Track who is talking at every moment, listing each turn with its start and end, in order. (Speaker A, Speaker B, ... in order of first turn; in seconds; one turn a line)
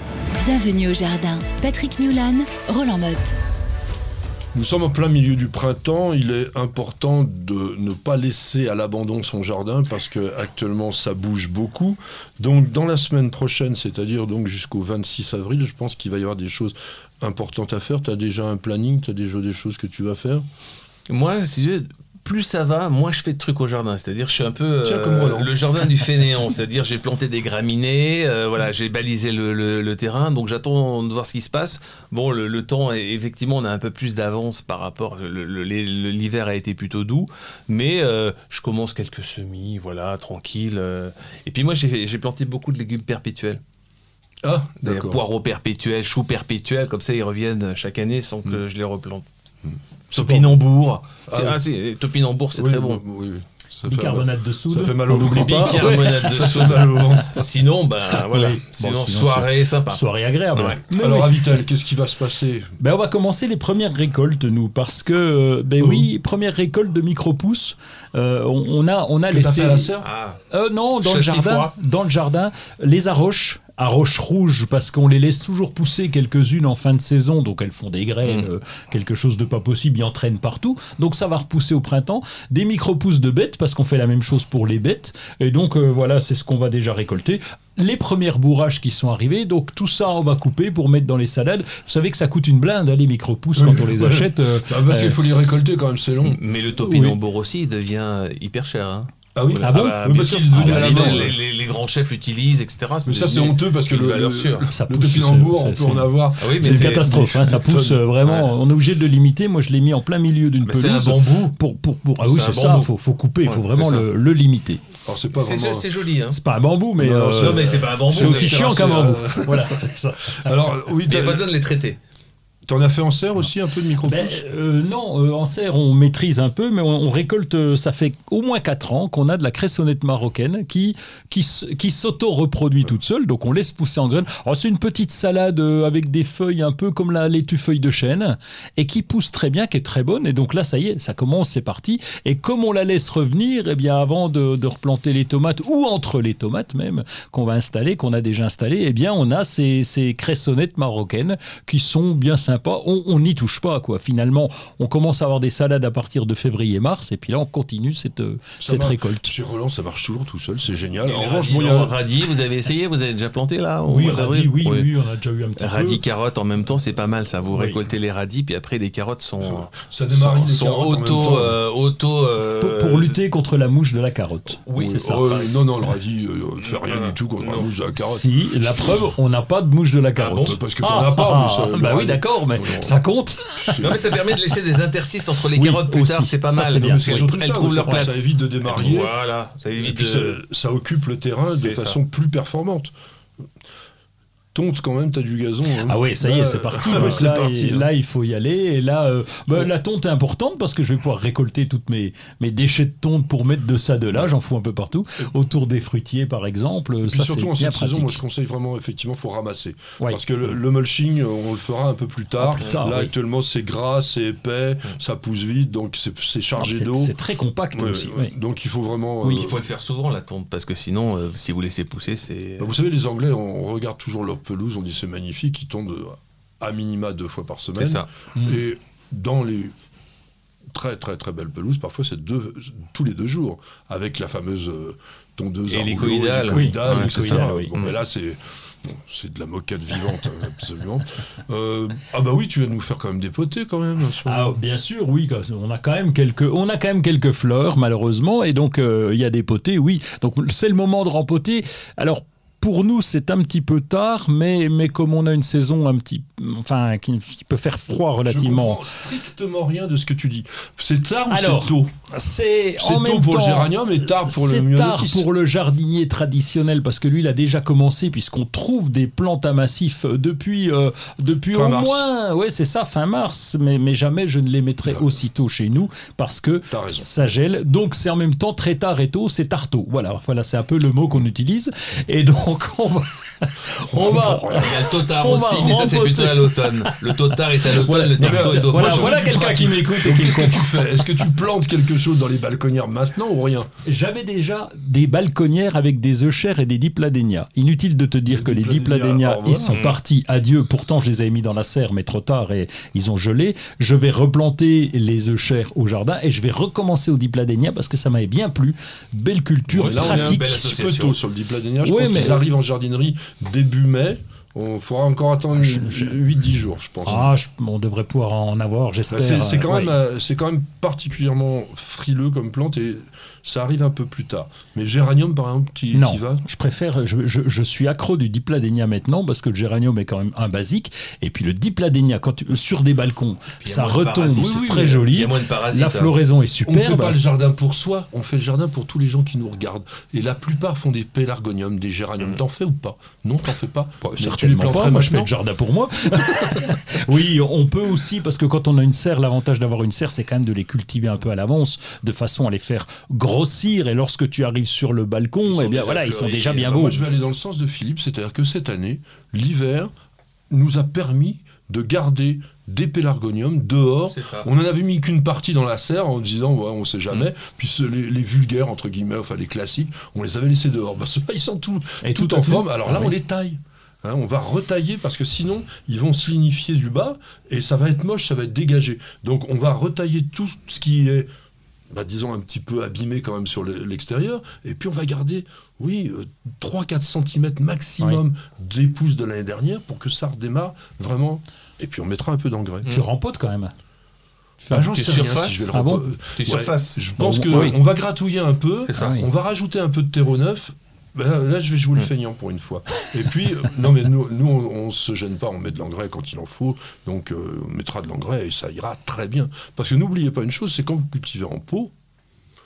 Speaker A: 0.4-3.4
Speaker B: 4.5-20.4
Speaker C: 21.1-43.6
Speaker B: 24.8-25.6
Speaker B: 44.4-45.2
Speaker C: 44.8-49.3
Speaker B: 49.6-50.7
Speaker C: 50.1-53.0
Speaker B: 51.3-51.6
Speaker B: 52.5-57.3
Speaker D: 53.8-57.2
Speaker C: 55.3-60.0
Speaker D: 58.1-61.4
Speaker C: 60.5-60.8
Speaker B: 60.9-62.7
Speaker D: 62.8-70.0
Speaker B: 65.8-66.1
Speaker B: 69.3-70.1
Speaker C: 70.0-70.4
Speaker D: 70.5-95.6
Speaker C: 71.0-71.7
Speaker B: 93.6-96.4
Speaker C: 96.2-104.7
Speaker D: 96.8-97.2
Speaker B: 99.3-101.4
Speaker D: 99.6-101.3
Speaker B: 103.0-108.1
Speaker D: 104.7-114.8
Speaker C: 106.4-107.1
Speaker C: 108.2-108.5
Speaker C: 110.6-111.6
Speaker C: 112.2-112.9
Speaker C: 113.4-114.1
Speaker B: 115.1-115.9
Speaker C: 115.3-116.4
Speaker D: 116.3-120.5
Speaker B: 117.0-121.5
Speaker C: 117.4-118.8
Speaker C: 121.1-122.0
Speaker B: 122.7-124.4
Speaker D: 124.0-159.3
Speaker B: 158.6-162.0
Speaker C: 161.1-164.9
Speaker D: 163.9-166.0
Speaker C: 165.6-173.2
Speaker D: 167.5-167.8
Speaker B: 169.4-171.6
Speaker D: 172.6-175.3
Speaker C: 174.7-175.5
Speaker B: 174.7-179.1
Speaker C: 176.6-177.7
Speaker D: 177.9-183.9
Speaker C: 180.2-180.6
Speaker B: 180.4-183.0
Speaker B: 183.6-184.1
Speaker C: 183.8-190.4
Speaker D: 185.5-188.1
Speaker B: 186.7-189.2
Speaker B: 189.8-192.9
Speaker C: 191.5-192.0
Speaker B: 194.5-197.9
Speaker D: 195.8-208.2
Speaker B: 207.0-217.2
Speaker D: 212.4-213.1
Speaker D: 216.6-218.3
Speaker B: 217.7-219.6
Speaker C: 219.3-222.7
Speaker B: 222.6-229.7
Speaker C: 227.8-228.1
Speaker B: 230.7-244.6
Speaker C: 235.7-237.9
Speaker D: 236.6-237.8
Speaker D: 244.2-258.9
Speaker B: 258.2-261.9
Speaker D: 261.3-291.3
Speaker B: 262.8-265.3
Speaker B: 271.5-272.1
Speaker B: 274.9-275.2
Speaker B: 276.7-277.1
Speaker B: 283.9-284.8
Speaker C: 284.5-289.3
Speaker B: 288.2-293.7
Speaker D: 293.9-310.6
Speaker B: 298.3-299.8
Speaker C: 299.7-300.0
Speaker C: 309.7-311.2
Speaker B: 309.8-317.3
Speaker D: 311.8-312.4
Speaker D: 315.6-316.2
Speaker D: 317.0-319.9
Speaker B: 319.1-326.4
Speaker D: 325.9-337.2
Speaker C: 333.6-336.1
Speaker B: 334.3-335.1
Speaker B: 336.6-345.3
Speaker D: 344.0-357.1
Speaker C: 355.5-356.8
Speaker B: 356.6-359.9
Speaker B: 360.5-381.3
Speaker C: 364.1-364.5
Speaker D: 372.0-373.1
Speaker B: 381.9-392.9
Speaker D: 392.9-393.7
Speaker D: 394.6-395.0
Speaker B: 394.7-411.9
Speaker C: 394.9-395.8
Speaker D: 395.7-396.1
Speaker C: 396.3-397.0
Speaker D: 397.2-397.8
Speaker C: 398.9-399.2
Speaker D: 398.9-399.3